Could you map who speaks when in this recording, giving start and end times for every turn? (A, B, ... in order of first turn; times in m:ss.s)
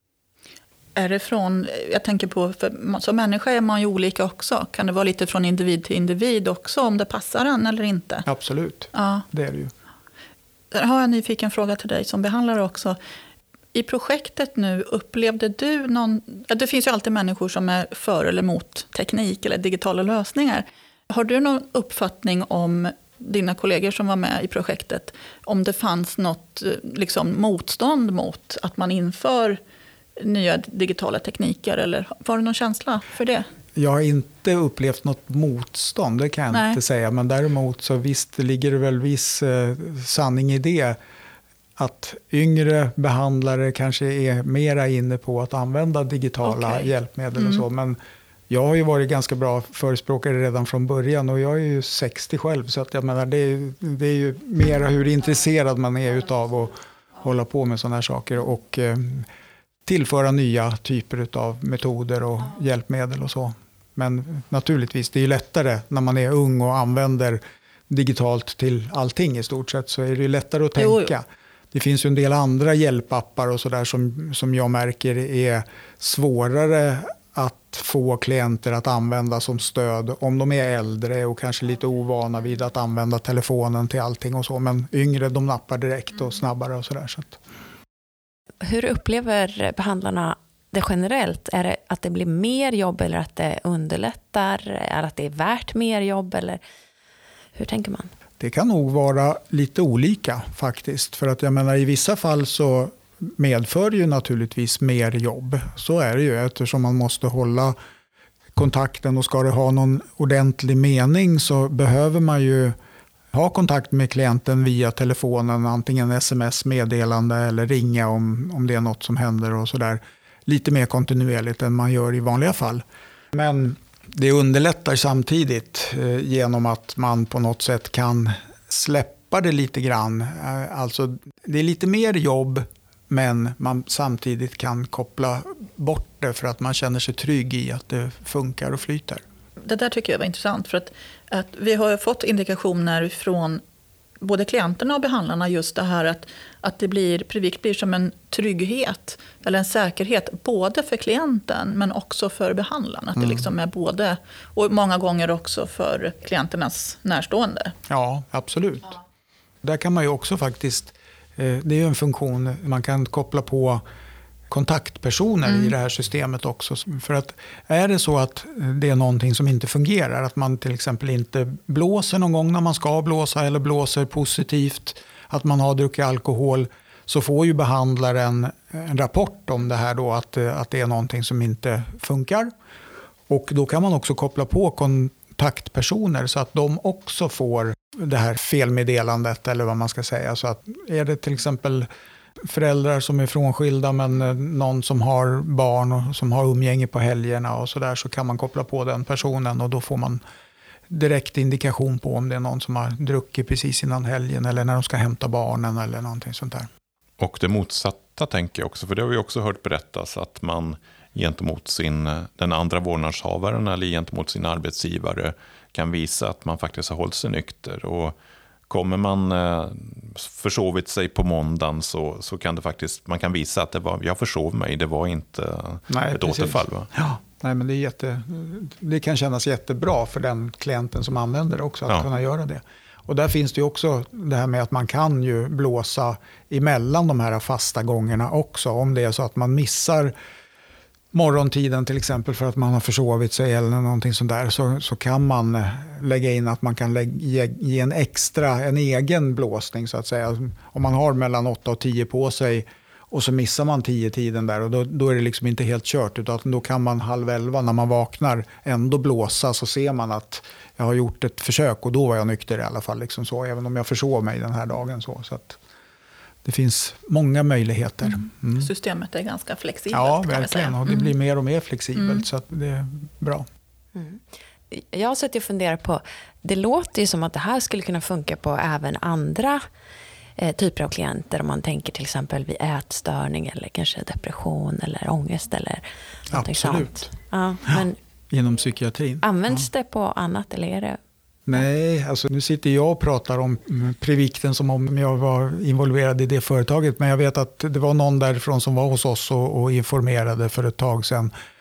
0:01.0-0:08.3 A
0:08.3-0:09.7 B
0:08.9-0:09.3 A
0:10.7-0:13.0 A
0:13.7-0:29.6 A
0:30.2-0:33.5 A
0:33.8-0:41.0 B
0:36.5-0:36.8 A
0:41.8-0:48.0 B
0:46.4-0:47.6 A
0:48.5-0:59.3 B
0:59.9-1:27.4 B
1:10.8-1:11.1 A
1:28.6-1:36.6 C
1:37.6-1:38.1 C
1:38.4-1:47.8 B
1:48.6-1:52.8 B
1:53.3-2:19.2 B
2:19.6-2:23.6 A
2:24.2-2:37.8 A
2:33.2-2:33.5 B
2:37.9-2:39.0 B
2:39.6-2:43.8 B
2:44.5-3:02.5 B
2:45.5-2:45.7 A
3:03.3-3:11.9 B
3:12.4-3:20.2 B
3:20.9-3:26.7 B
3:27.2-3:38.2 D
3:38.7-3:46.9 D
3:45.9-4:00.2 B
4:01.1-4:25.6 B
4:26.4-4:28.7 B
4:28.1-4:31.1 A
4:29.9-4:33.5 B
4:32.0-4:32.2 A
4:34.0-4:39.6 C
4:40.4-4:48.0 C
4:46.3-4:47.1 B
4:47.7-4:49.7 B
4:49.2-4:51.0 C
4:51.5-5:01.3 B